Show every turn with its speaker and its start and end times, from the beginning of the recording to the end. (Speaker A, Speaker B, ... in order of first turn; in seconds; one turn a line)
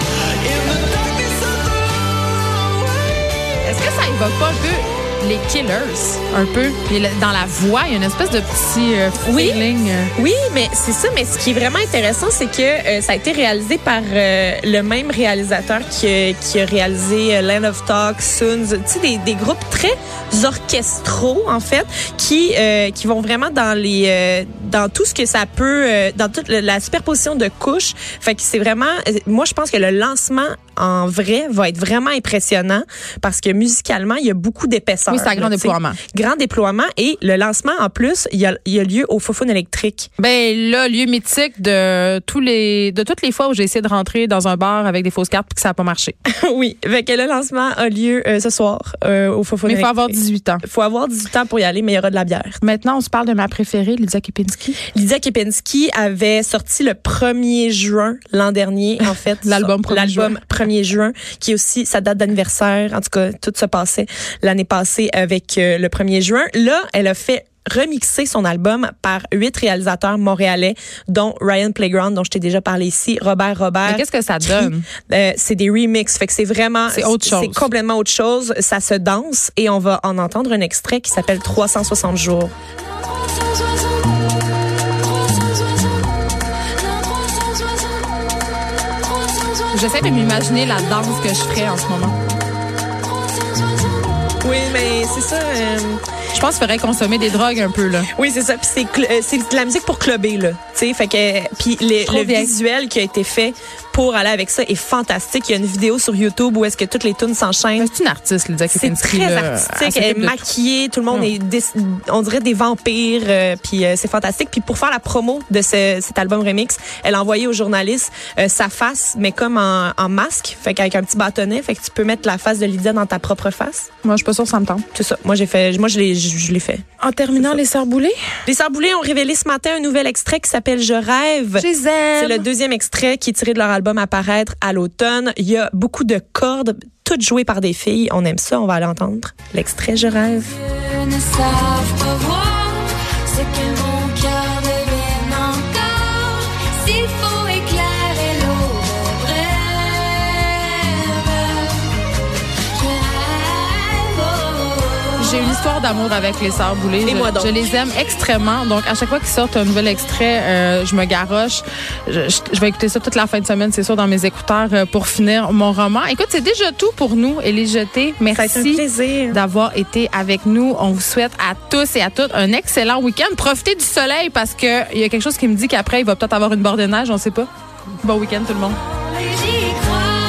Speaker A: 3.6-10.1
Speaker B: 9.2-40.1
Speaker A: 35.1-36.0
Speaker A: 40.2-46.1
Speaker B: 46.3-52.6
Speaker A: 49.6-50.6
Speaker A: 52.6-54.8
Speaker B: 54.9-82.5
Speaker A: 59.4-60.4
Speaker A: 73.8-74.8
Speaker A: 76.9-77.7
Speaker A: 89.7-92.2
Speaker B: 94.4-96.0
Speaker A: 96.3-98.1
Speaker B: 98.1-107.9
Speaker A: 102.0-102.5
Speaker A: 107.8-110.4
Speaker B: 108.7-123.9
Speaker A: 124.0-124.8
Speaker B: 124.9-126.8
Speaker A: 127.0-128.1
Speaker B: 127.3-127.6
Speaker B: 128.4-140.6
Speaker A: 131.6-132.4
Speaker C: 141.1-142.8
Speaker C: 143.4-146.1
Speaker C: 147.0-149.8
Speaker C: 153.0-153.3
Speaker A: 155.2-177.5
Speaker B: 157.0-157.7
Speaker B: 168.3-169.4
Speaker A: 178.0-178.8